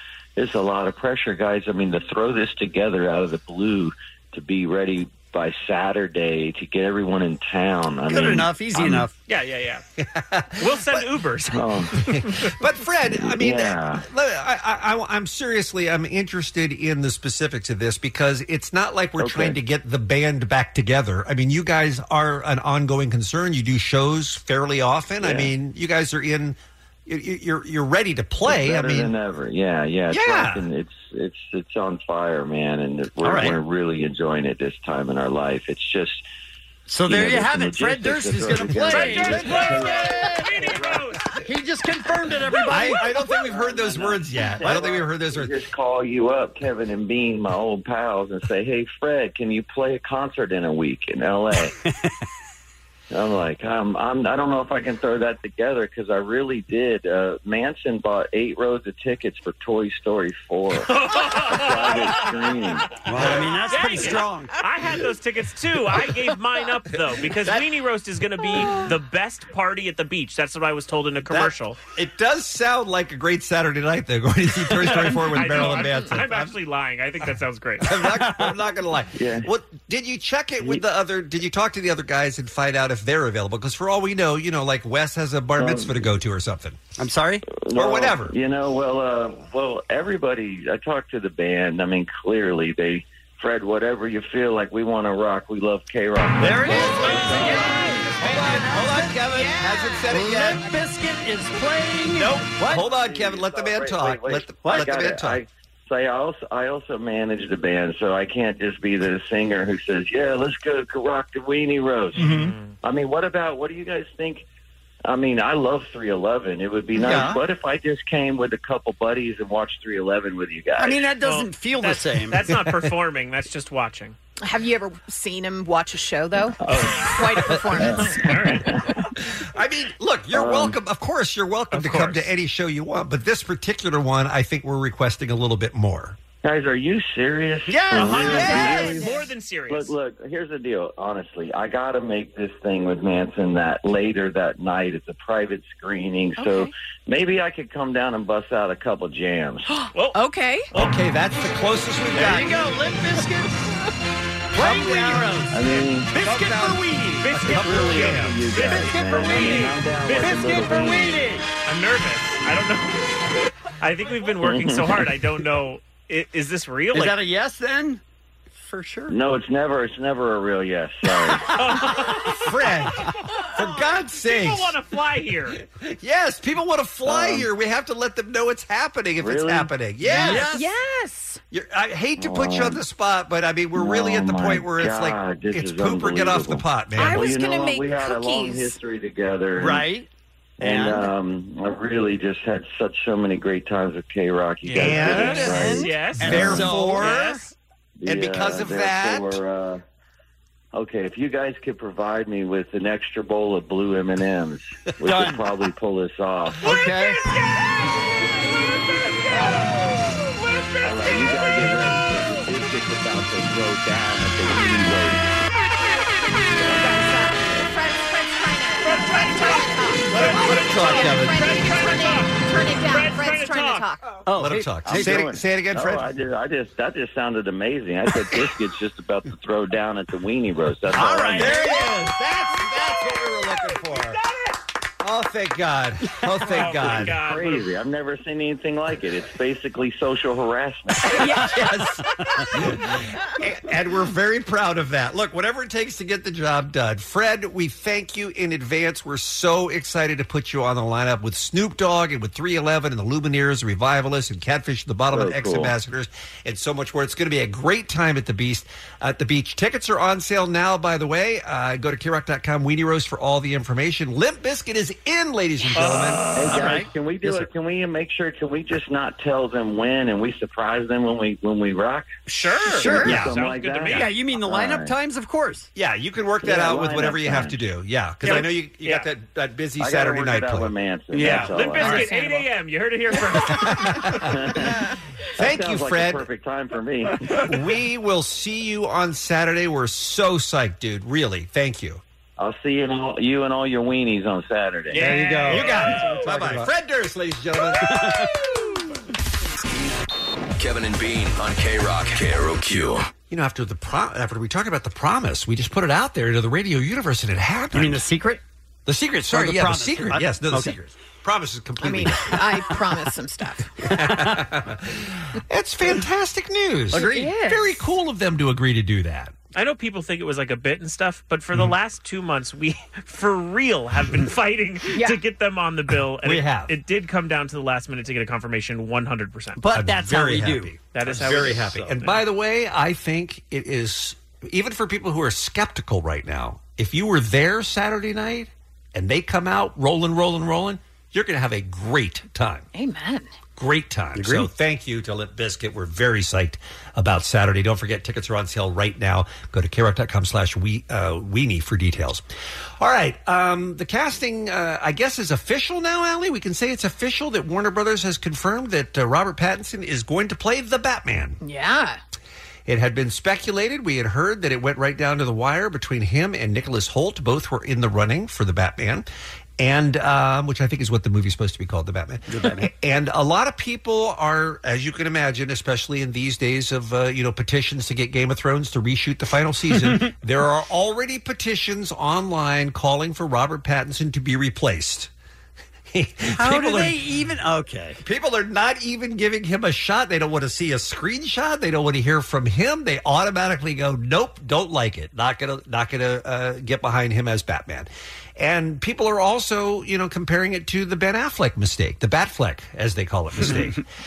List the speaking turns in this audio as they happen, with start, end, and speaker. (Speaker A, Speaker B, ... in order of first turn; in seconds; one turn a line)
Speaker A: 0.4-8.5
Speaker B: 8.1-9.1
Speaker C: 9.3-9.8
Speaker D: 10.0-11.0
Speaker C: 10.6-12.6
Speaker A: 11.5-11.9
Speaker D: 11.9-29.1
Speaker A: 13.1-14.1
Speaker A: 19.2-19.6
Speaker A: 25.2-25.5
Speaker A: 28.4-36.2
Speaker D: 30.1-30.7
Speaker B: 33.2-33.6
Speaker B: 36.9-40.8
Speaker A: 37.1-40.9
Speaker C: 38.8-41.2
Speaker B: 41.4-43.1
Speaker D: 42.7-45.5
Speaker A: 43.4-51.7
Speaker B: 51.9-52.1
Speaker A: 53.1-62.9
Speaker C: 60.8-62.5
Speaker B: 63.0-64.5
Speaker C: 63.2-71.8
Speaker D: 71.3-76.5
Speaker C: 74.8-78.1
Speaker D: 77.8-86.8
Speaker B: 78.0-78.5
Speaker A: 79.1-79.5
Speaker A: 85.6-86.1
Speaker B: 87.0-87.5
Speaker A: 87.5-98.1
Speaker D: 87.8-88.3
Speaker B: 96.4-103.0
Speaker D: 98.2-100.7
Speaker D: 102.1-105.4
Speaker A: 102.7-114.5
Speaker B: 104.6-105.0
Speaker B: 112.2-112.5
Speaker C: 112.2-112.8
Speaker A: 115.0-121.0
Speaker B: 117.0-117.4
Speaker B: 120.8-122.5
Speaker C: 121.2-124.2
Speaker E: 124.4-128.2
Speaker C: 126.7-128.7
Speaker D: 129.5-136.2
Speaker A: 130.3-130.8
Speaker C: 131.7-132.3
Speaker A: 136.4-139.1
Speaker B: 137.7-139.0
Speaker C: 137.9-139.9
Speaker A: 139.7-149.7
Speaker E: 146.4-146.7
Speaker E: 149.7-150.7
Speaker C: 149.9-150.2
Speaker D: 150.7-152.7
Speaker B: 152.1-153.6
Speaker B: 154.5-161.5
Speaker D: 154.6-155.4
Speaker A: 155.5-156.1
Speaker D: 156.2-158.4
Speaker C: 157.2-161.0
Speaker A: 157.4-161.2
Speaker C: 161.7-163.2
Speaker C: 163.8-167.2
Speaker A: 164.4-164.9
Speaker B: 166.9-168.0
Speaker B: 168.6-169.2
Speaker A: 169.1-171.5
Speaker C: 171.5-172.5
Speaker D: 172.4-174.7
Speaker C: 173.6-175.6
Speaker D: 175.8-180.5
Speaker A: 177.1-177.5
Speaker A: 179.2-179.7
Speaker B: 180.0-180.7
Speaker E: 180.5-181.4
Speaker D: 181.5-187.3
Speaker A: 182.2-182.8
Speaker A: 183.8-189.8
Speaker E: 187.0-188.8
Speaker B: 189.6-190.1
Speaker A: 190.6-196.6
Speaker B: 190.6-191.1
Speaker C: 194.7-197.5
Speaker D: 194.8-197.4
Speaker B: 194.8-197.2
Speaker A: 198.0-199.8
Speaker D: 198.1-199.4
Speaker A: 200.7-206.6
Speaker B: 205.0-205.4
Speaker B: 206.6-207.2
Speaker A: 210.8-215.3
Speaker E: 216.6-224.1
Speaker C: 218.8-223.9
Speaker D: 220.1-221.4
Speaker B: 224.3-225.3
Speaker D: 224.4-226.1
Speaker A: 224.8-231.6
Speaker B: 230.9-231.7
Speaker D: 230.9-234.2
Speaker D: 235.0-237.2
Speaker C: 236.4-237.7
Speaker A: 237.1-241.4
Speaker E: 241.2-241.5
Speaker D: 241.4-266.4
Speaker A: 255.1-255.8
Speaker C: 265.8-266.7
Speaker B: 265.8-267.4
Speaker A: 266.3-272.2
Speaker C: 272.3-274.1
Speaker B: 272.7-273.3
Speaker A: 272.8-274.9
Speaker B: 273.9-275.7
Speaker D: 275.8-280.7
Speaker A: 276.4-277.6
Speaker C: 278.3-279.1
Speaker A: 279.8-282.1
Speaker B: 281.1-282.2
Speaker C: 281.2-284.2
Speaker D: 283.6-284.7
Speaker A: 284.3-284.8
Speaker A: 285.4-287.5
Speaker D: 285.4-286.3
Speaker D: 287.4-292.0
Speaker A: 292.4-295.2
Speaker C: 294.9-296.3
Speaker B: 294.9-296.7
Speaker D: 295.5-298.3
Speaker B: 297.7-298.3
Speaker F: 300.6-303.1
Speaker D: 303.3-308.0
Speaker B: 307.7-308.4
Speaker D: 308.9-312.6
Speaker B: 309.3-310.8
Speaker E: 311.8-313.7
Speaker D: 313.9-319.3
Speaker B: 316.9-317.4
Speaker E: 316.9-317.8
Speaker C: 319.5-329.6
Speaker E: 324.9-325.2
Speaker D: 326.2-326.7
Speaker B: 329.6-330.8
Speaker D: 329.7-342.7
Speaker C: 330.9-332.2
Speaker E: 342.7-343.3
Speaker D: 343.6-352.2
Speaker B: 344.1-344.5
Speaker D: 352.8-361.4
Speaker E: 361.4-362.0
Speaker D: 362.7-369.1
Speaker D: 369.6-385.1
Speaker B: 372.3-372.7
Speaker D: 385.9-387.0
Speaker B: 386.3-388.0
Speaker D: 388.0-403.9